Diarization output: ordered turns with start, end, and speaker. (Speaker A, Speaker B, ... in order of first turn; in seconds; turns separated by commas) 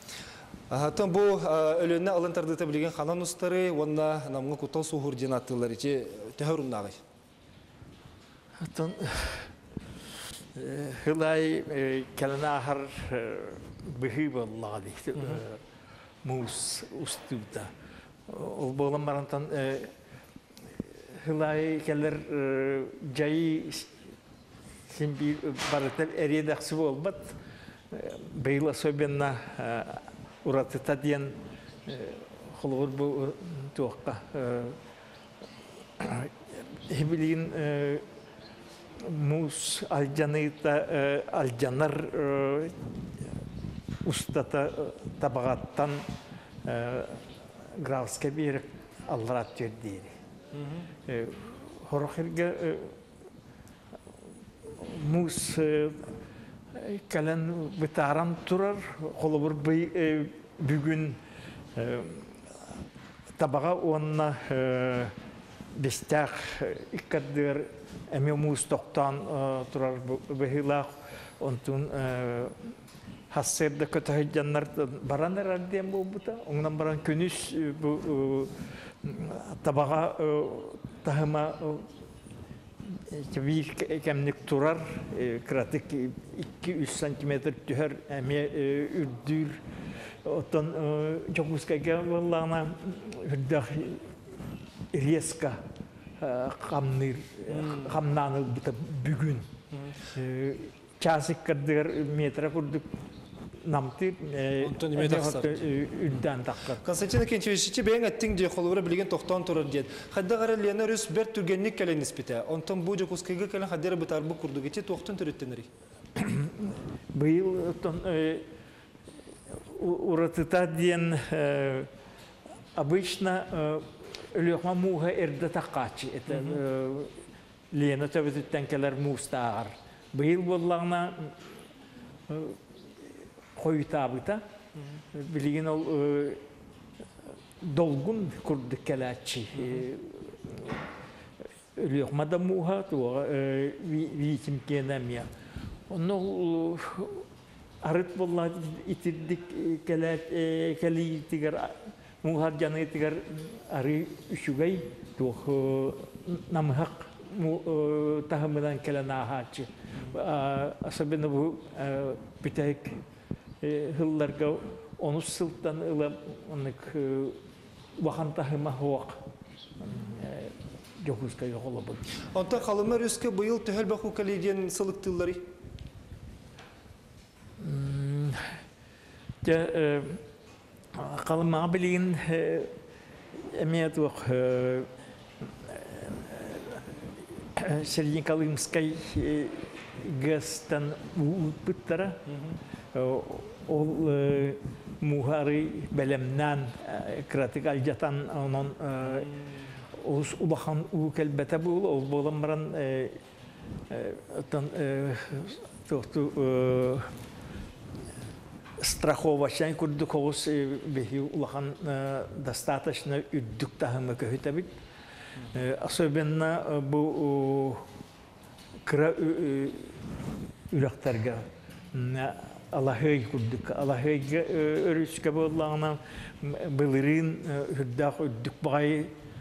Speaker A: 0.7-7.0, Speaker B: 8.6-9.5, Speaker B: 10.5-15.6, Speaker B: 16.2-17.7, Speaker B: 18.3-19.9, Speaker B: 20.8-23.9, Speaker B: 24.9-27.4, Speaker B: 27.9-31.3, Speaker B: 31.9-34.8, Speaker B: 36.0-38.0, Speaker B: 39.0-42.8, Speaker B: 44.0-46.0, Speaker B: 46.6-47.2, Speaker B: 47.7-50.1, Speaker A: 50.5-50.8, Speaker B: 51.1-53.0, Speaker B: 54.6-56.1, Speaker B: 56.7-61.2, Speaker B: 61.7-62.6, Speaker B: 63.4-65.1, Speaker B: 65.7-72.6, Speaker B: 73.3-78.5, Speaker B: 79.0-81.9, Speaker B: 82.9-89.6, Speaker B: 90.2-94.1, Speaker B: 94.9-95.6, Speaker B: 96.2-99.5, Speaker A: 97.5-97.9, Speaker B: 100.1-102.9, Speaker B: 103.6-106.8, Speaker A: 104.6-105.5, Speaker A: 106.8-115.7, Speaker B: 116.2-118.4, Speaker B: 119.5-121.9, Speaker B: 122.7-131.5, Speaker B: 132.3-132.6, Speaker B: 133.6-134.4, Speaker B: 135.1-136.4, Speaker B: 137.6-140.8, Speaker B: 141.8-145.3, Speaker B: 145.9-147.2, Speaker B: 147.8-163.0, Speaker B: 163.6-167.4, Speaker B: 168.0-169.2, Speaker B: 169.8-172.1, Speaker A: 172.3-175.4, Speaker B: 177.6-178.4, Speaker B: 179.4-180.2, Speaker B: 180.9-182.7, Speaker B: 183.3-184.9, Speaker B: 185.4-192.3, Speaker B: 192.9-199.3, Speaker B: 199.9-203.2, Speaker B: 203.9-207.1, Speaker B: 208.8-214.7, Speaker B: 215.5-217.8, Speaker B: 218.8-219.9, Speaker B: 220.7-229.1